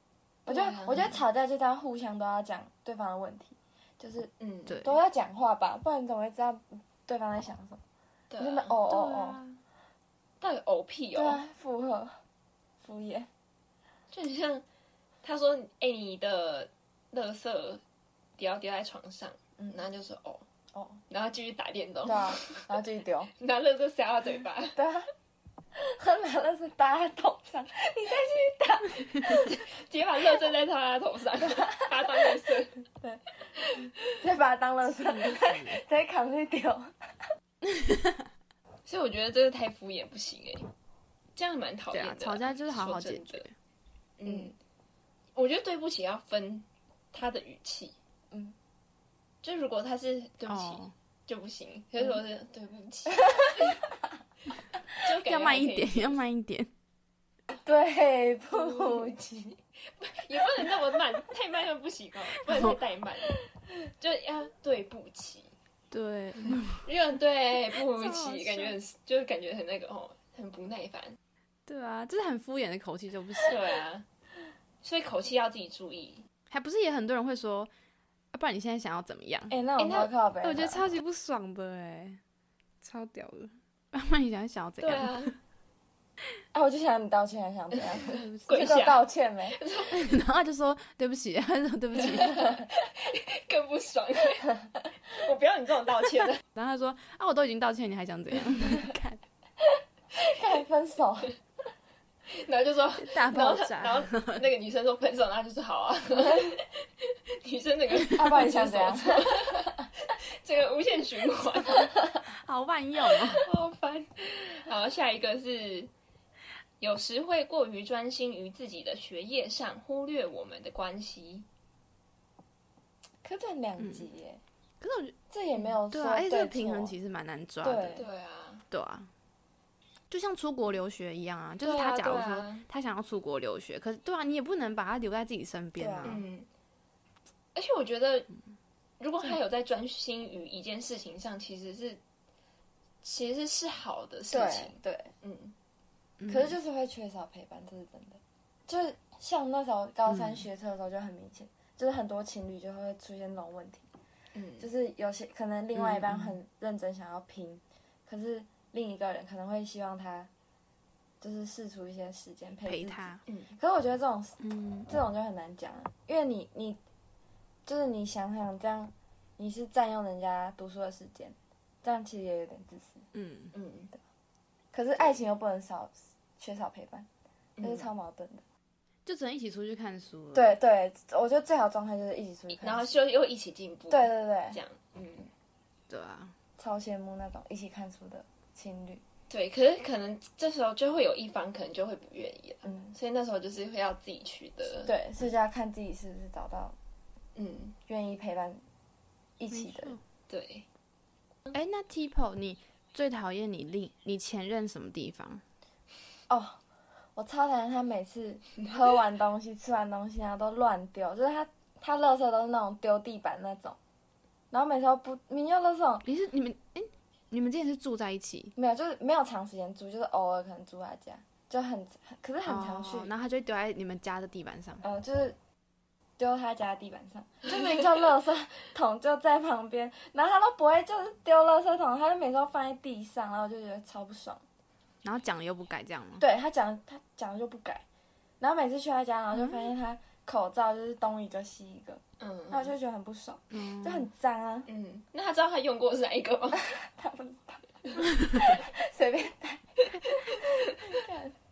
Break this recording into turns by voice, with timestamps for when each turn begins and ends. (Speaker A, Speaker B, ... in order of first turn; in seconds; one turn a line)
Speaker A: 0.5-4.3
Speaker B: 0.5-1.2
Speaker B: 4.4-4.8
Speaker C: 4.7-5.0
Speaker A: 4.8-7.8
Speaker B: 8.3-8.8
Speaker A: 8.4-9.4
Speaker C: 8.9-9.6
Speaker B: 10.4-11.4
Speaker A: 11.1-12.2
Speaker A: 12.8-13.3
Speaker B: 14.1-14.6
Speaker B: 15.2-17.8
Speaker B: 18.4-20.4
Speaker A: 20.7-21.0
Speaker B: 21.1-22.7
Speaker A: 22.0-23.3
Speaker B: 23.3-24.8
Speaker A: 24.7-25.1
Speaker A: 25.7-29.5
Speaker B: 29.2-32.8
Speaker A: 31.4-32.2
Speaker A: 34.2-36.9
Speaker C: 34.9-35.8
Speaker C: 37.6-38.2
Speaker B: 38.9-40.7
Speaker B: 41.4-43.4
Speaker C: 41.9-43.5
Speaker B: 44.2-44.5
Speaker B: 45.4-48.0
Speaker B: 49.4-53.8
Speaker C: 50.5-50.9
Speaker B: 55.0-56.2
Speaker C: 55.1-56.7
Speaker A: 57.6-59.6
Speaker B: 60.0-63.4
Speaker C: 62.5-62.8
Speaker B: 64.0-65.5
Speaker C: 65.9-66.8
Speaker B: 66.5-71.2
Speaker C: 67.8-68.8
Speaker C: 71.7-73.5
Speaker B: 73.5-74.0
Speaker B: 74.8-76.2
Speaker C: 76.5-77.7
Speaker C: 78.3-79.5
Speaker A: 79.5-80.9
Speaker B: 79.8-80.1
Speaker C: 80.4-82.2
Speaker C: 82.8-85.3
Speaker B: 84.8-85.3
Speaker A: 86.5-89.6
Speaker C: 88.0-88.8
Speaker B: 88.5-90.1
Speaker C: 89.9-92.6
Speaker B: 92.0-94.5
Speaker B: 95.1-96.4
Speaker C: 96.5-99.2
Speaker A: 100.2-101.3
Speaker B: 102.3-111.9
Speaker C: 103.0-104.5
Speaker A: 108.1-109.8
Speaker C: 112.2-113.5
Speaker B: 113.4-115.9
Speaker B: 116.8-121.5
Speaker A: 123.2-124.4
Speaker C: 123.8-124.0
Speaker C: 124.8-125.1
Speaker A: 125.3-126.9
Speaker C: 125.9-128.0
Speaker A: 127.6-128.1
Speaker B: 128.0-128.6
Speaker C: 128.7-129.1
Speaker C: 130.1-136.2
Speaker B: 131.6-132.6
Speaker A: 135.8-136.2
Speaker B: 136.0-136.5
Speaker B: 137.5-138.3
Speaker B: 139.0-142.0
Speaker B: 143.0-145.5
Speaker A: 144.3-145.1
Speaker C: 146.2-146.6
Speaker A: 146.3-153.8
Speaker C: 150.1-150.4
Speaker B: 154.3-154.7
Speaker A: 154.6-160.3
Speaker C: 155.7-156.4
Speaker A: 161.2-166.8
Speaker C: 162.7-163.2
Speaker B: 163.2-163.5
Speaker C: 164.4-164.9
Speaker A: 167.7-173.1
Speaker C: 173.1-173.5
Speaker B: 173.5-173.9
Speaker A: 174.7-177.1
Speaker B: 177.6-177.8
Speaker A: 177.6-178.4
Speaker C: 179.1-180.6
Speaker A: 180.3-182.9
Speaker B: 182.5-185.3
Speaker A: 183.9-184.6
Speaker C: 185.9-186.3
Speaker A: 186.6-189.0
Speaker B: 189.3-195.0
Speaker A: 194.8-196.8
Speaker B: 197.3-197.8
Speaker A: 197.9-198.6
Speaker A: 199.4-199.9
Speaker C: 199.5-200.0
Speaker B: 200.3-200.7
Speaker C: 201.5-205.4
Speaker A: 206.3-206.6
Speaker A: 207.2-213.8
Speaker A: 214.5-216.0
Speaker C: 216.0-218.5
Speaker A: 218.6-223.1
Speaker C: 222.4-224.8
Speaker A: 224.8-225.3
Speaker A: 226.2-234.4
Speaker C: 235.0-236.2
Speaker A: 236.2-237.8
Speaker A: 238.4-244.7
Speaker C: 239.3-239.7
Speaker B: 242.2-242.7
Speaker C: 243.5-244.1
Speaker B: 244.7-246.7
Speaker A: 246.5-251.3
Speaker C: 248.2-248.5